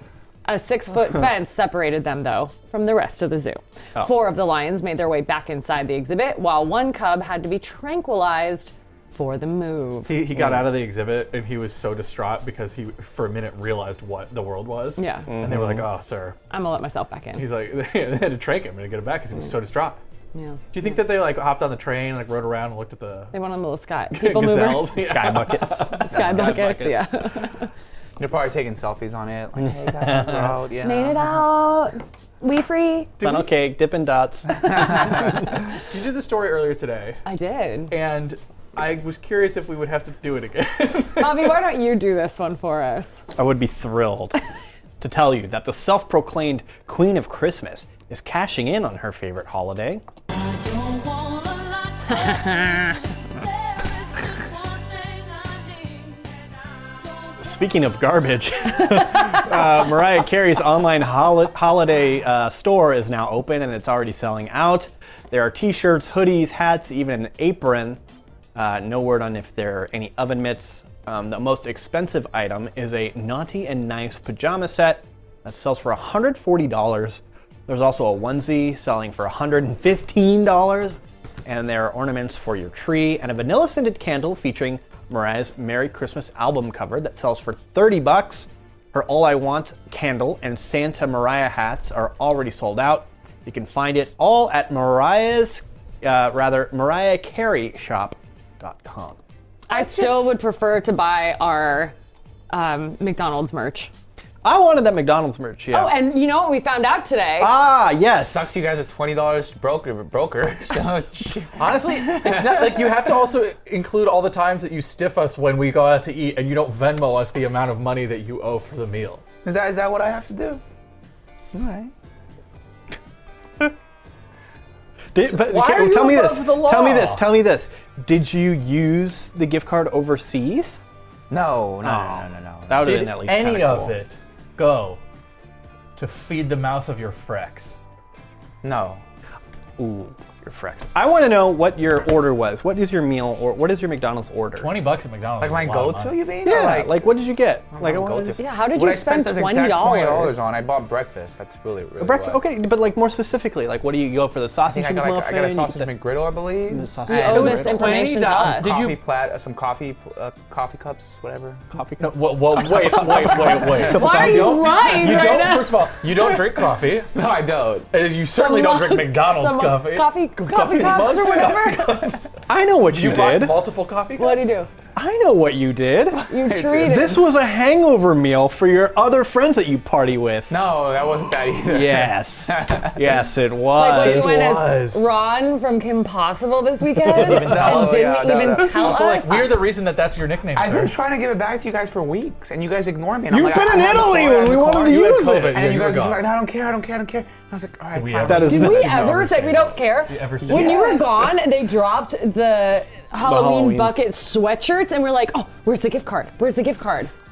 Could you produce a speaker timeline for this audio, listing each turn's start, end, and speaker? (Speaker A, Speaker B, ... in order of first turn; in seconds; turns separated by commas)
Speaker A: 0.4-10.1, Speaker B: 10.1-16.4, Speaker C: 10.3-10.6, Speaker A: 15.0-15.3, Speaker C: 15.3-15.9, Speaker A: 16.5-17.4, Speaker B: 17.3-20.0, Speaker A: 20.3-20.9, Speaker B: 20.7-23.3, Speaker A: 23.3-25.0, Speaker B: 24.1-27.3, Speaker C: 24.9-26.5, Speaker A: 26.0-27.7, Speaker D: 28.2-31.3, Speaker C: 29.7-30.6, Speaker A: 30.8-33.1, Speaker B: 33.2-33.5, Speaker C: 33.2-35.4, Speaker B: 35.8-37.2, Speaker A: 37.2-37.9, Speaker B: 37.9-41.6, Speaker A: 41.2-43.2, Speaker C: 43.4-44.4, Speaker C: 45.0-50.0, Speaker A: 52.0-53.0, Speaker C: 57.4-68.0, Speaker C: 68.5-99.2, Speaker A: 99.7-101.9, Speaker D: 99.7-100.3, Speaker A: 102.5-103.9, Speaker C: 104.4-106.0, Speaker A: 105.7-107.5, Speaker C: 107.4-108.5, Speaker D: 108.1-113.1, Speaker B: 111.6-119.2, Speaker D: 119.4-120.6, Speaker D: 121.5-121.9, Speaker C: 125.1-130.8, Speaker B: 125.2-127.2, Speaker D: 131.3-133.1, Speaker C: 131.8-133.9, Speaker B: 132.8-135.0, Speaker B: 135.9-137.8, Speaker D: 138.6-139.0, Speaker C: 139.8-144.7, Speaker B: 144.5-146.2, Speaker D: 145.4-147.0, Speaker C: 146.4-148.4, Speaker D: 147.7-152.4, Speaker A: 148.4-150.4, Speaker C: 152.0-155.9, Speaker D: 154.6-161.6, Speaker C: 156.7-158.0, Speaker A: 157.1-158.8, Speaker B: 157.1-159.0, Speaker C: 161.7-165.4, Speaker B: 162.0-167.1, Speaker A: 163.8-166.0, Speaker D: 167.1-167.9, Speaker B: 167.9-172.3, Speaker A: 168.3-172.2, Speaker C: 172.5-173.6, Speaker B: 172.9-174.6, Speaker A: 174.2-174.7, Speaker C: 174.9-176.2, Speaker D: 176.1-177.1, Speaker A: 176.3-177.2, Speaker C: 176.8-180.6, Speaker D: 180.5-183.3, Speaker C: 181.7-184.5, Speaker A: 183.7-189.6, Speaker B: 183.9-185.0, Speaker B: 187.1-190.9, Speaker D: 187.1-189.0, Speaker C: 187.2-187.7, Speaker D: 190.5-198.9, Speaker C: 193.3-195.5, Speaker B: 194.3-196.2, Speaker B: 197.9-201.0, Speaker C: 198.2-199.3, Speaker A: 198.4-207.1, Speaker D: 200.4-201.3, Speaker C: 203.2-204.0